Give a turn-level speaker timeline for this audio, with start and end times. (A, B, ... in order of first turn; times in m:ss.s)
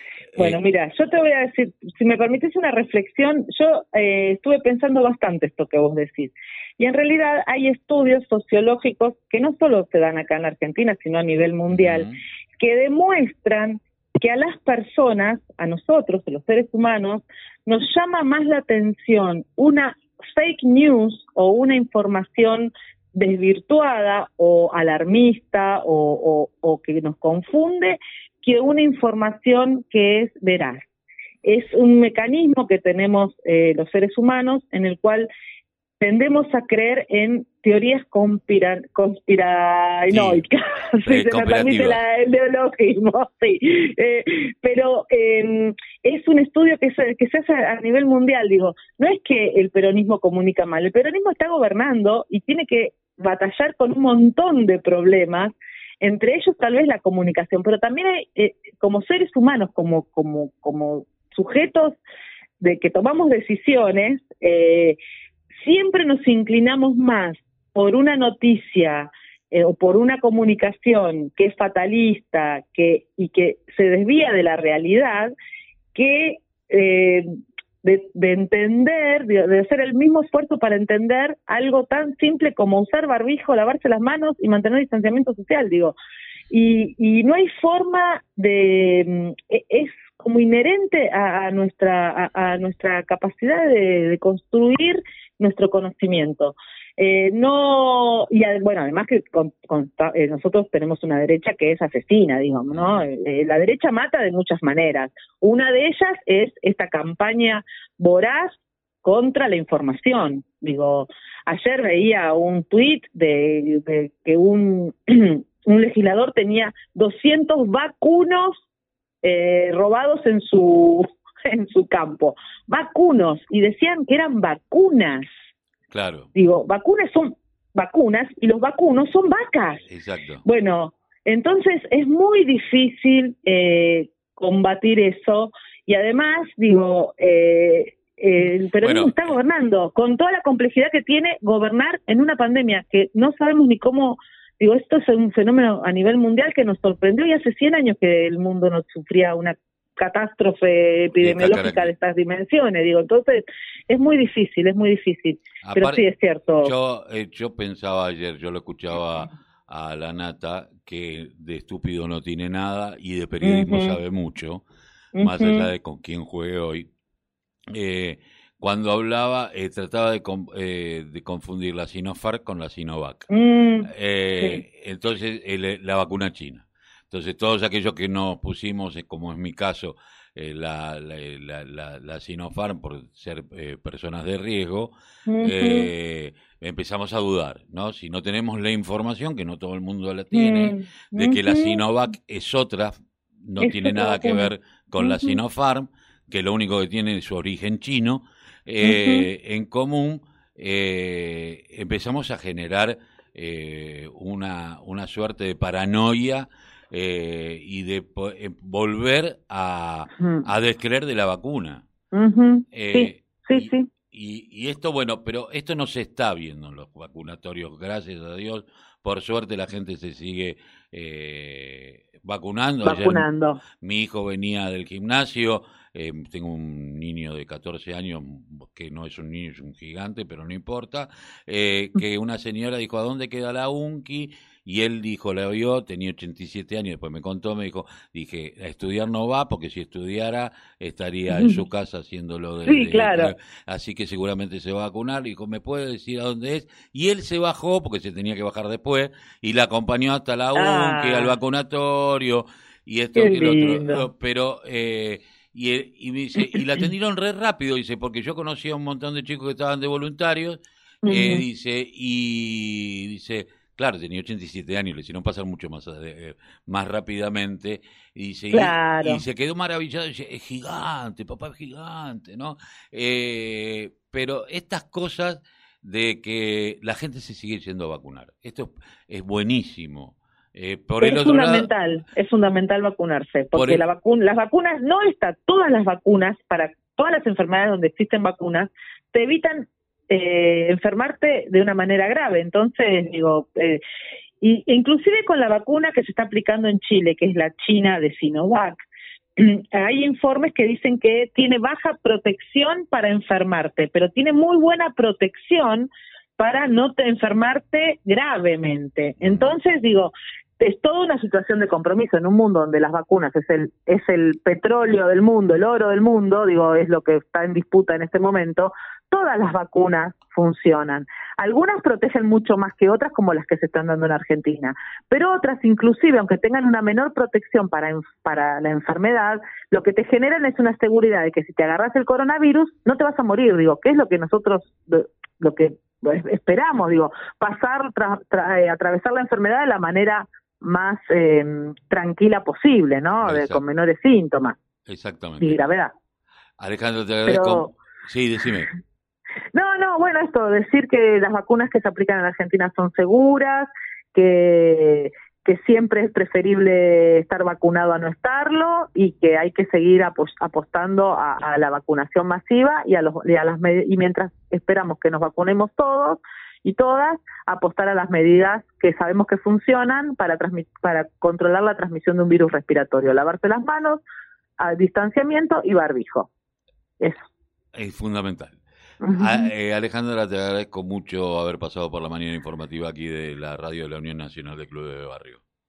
0:00.3-0:00.6 A
0:00.4-0:30.8 B
0:11.7-0:12.2 A
0:31.4-0:35.3 B
0:36.0-1:02.0 B
0:40.1-0:40.4 A
0:41.0-0:42.0 A
1:02.6-1:05.0 B
1:05.6-1:15.3 B
1:15.9-1:17.3 B
1:17.8-1:26.0 B
1:26.5-1:58.6 B
1:42.7-1:43.0 A
1:59.2-2:05.3 B
2:05.9-2:06.3 A
2:06.4-2:09.8 B
2:09.9-2:10.4 A
2:10.4-2:36.7 B
2:18.8-2:19.2 A
2:31.2-2:31.9 A
2:35.6-2:36.0 A
2:36.6-2:44.6 A
2:43.4-2:44.0 B
2:45.1-2:45.7 B
2:45.2-2:46.9 A
2:47.7-2:53.3 A
2:53.3-2:54.6 B
2:53.9-3:31.8 A
3:05.3-3:05.9 B
3:10.3-3:11.8 B
3:13.6-3:15.4 B
3:18.8-3:19.3 B
3:30.2-3:30.5 B
3:32.1-3:33.9 B
3:32.7-3:43.3 A
3:42.8-3:43.6 B
3:43.8-4:41.7 A
4:01.3-4:01.6 B
4:02.6-4:03.3 B
4:10.5-4:11.3 B
4:13.2-4:14.0 B
4:21.0-4:21.4 B
4:28.5-4:29.2 B
4:41.0-4:53.8 B
4:43.5-4:43.8 A
4:54.4-4:58.8 B
4:59.4-5:44.6 B
5:09.2-5:09.5 A
5:43.2-5:43.6 A
5:44.9-5:45.6 A
5:45.4-5:45.9 B
5:46.6-5:48.7 A
5:47.3-5:47.7 B
5:49.5-6:14.0 B
6:14.6-6:16.3 B
6:17.7-6:18.6 A
6:19.0-6:19.5 B
6:19.1-6:25.4 A